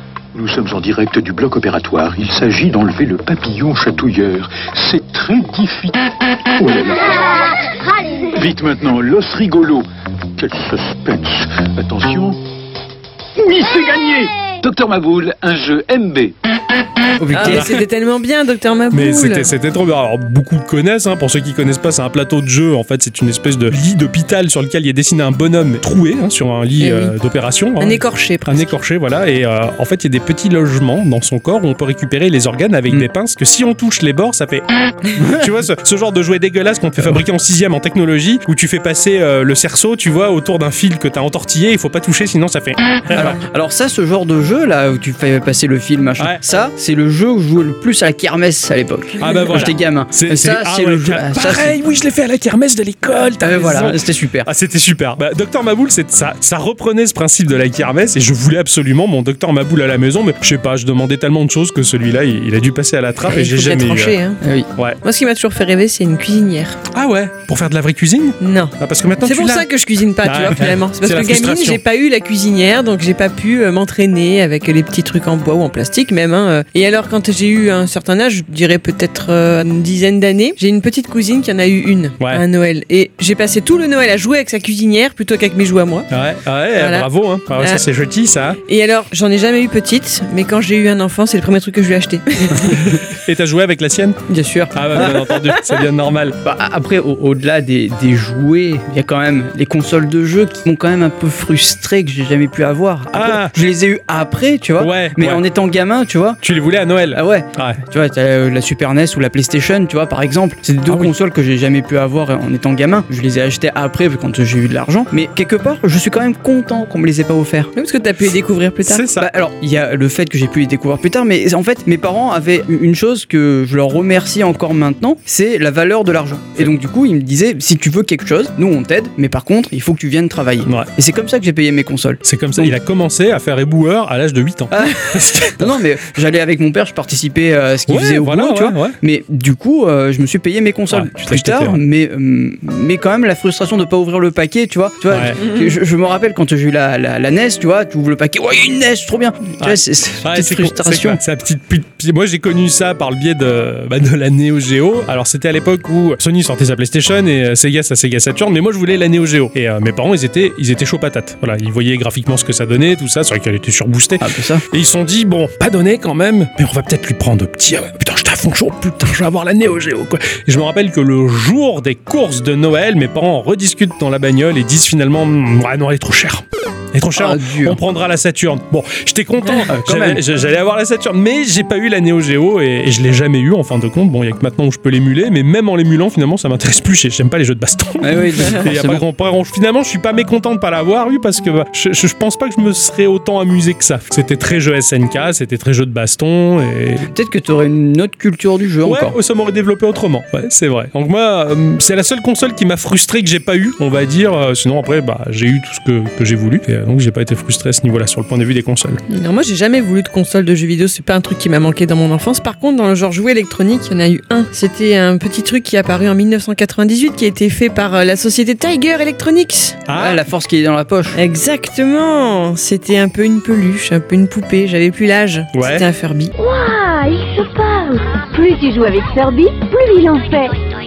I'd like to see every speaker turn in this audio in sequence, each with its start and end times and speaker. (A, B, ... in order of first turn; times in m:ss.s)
0:00.3-0:07.3 A
0:08.3-0:09.9 A
0:10.4-0:12.4 A
0:13.4-0:16.4 A
0:17.2-0:17.8 B
0:17.3-0:19.5 C
0:17.4-0:17.8 D
0:18.9-0:43.4 D
0:26.8-0:27.1 C
0:27.8-0:28.7 C
0:35.2-0:35.5 B
0:43.1-0:51.8 B
0:49.2-1:04.2 D
0:53.4-0:54.5 B
1:03.2-1:04.4 C
1:04.4-1:04.7 B
1:05.0-1:06.8 C
1:06.9-1:09.7 D
1:08.4-1:26.1 C
1:10.2-1:11.8 D
1:26.1-1:28.6 D
1:26.8-1:27.1 C
1:28.7-1:32.9 C
1:33.0-1:34.2 D
1:34.3-1:35.5 C
1:34.7-1:36.4 D
1:36.4-1:46.4 B
1:43.1-1:43.5 D
1:44.8-1:45.4 D
1:46.4-1:47.8 D
1:47.1-1:57.7 B
1:50.9-1:51.1 D
1:57.8-1:59.0 C
1:58.8-1:59.3 D
1:59.2-2:12.7 B
2:12.2-2:15.8 D
2:14.7-2:15.0 B
2:15.6-2:31.2 B
2:17.9-2:19.0 D
2:20.9-2:21.8 D
2:25.1-2:25.4 D
2:25.4-2:25.7 C
2:29.6-3:17.1 D
2:44.2-2:44.6 B
2:57.2-2:57.8 B
2:59.7-3:00.2 B
3:08.0-3:09.0 B
3:17.1-3:19.2 B
3:18.8-3:29.0 D
3:29.1-3:39.8 C
3:39.9-3:40.2 D
3:40.0-3:41.2 B
3:41.2-3:46.3 C
3:45.5-3:45.9 D
3:46.4-3:50.5 E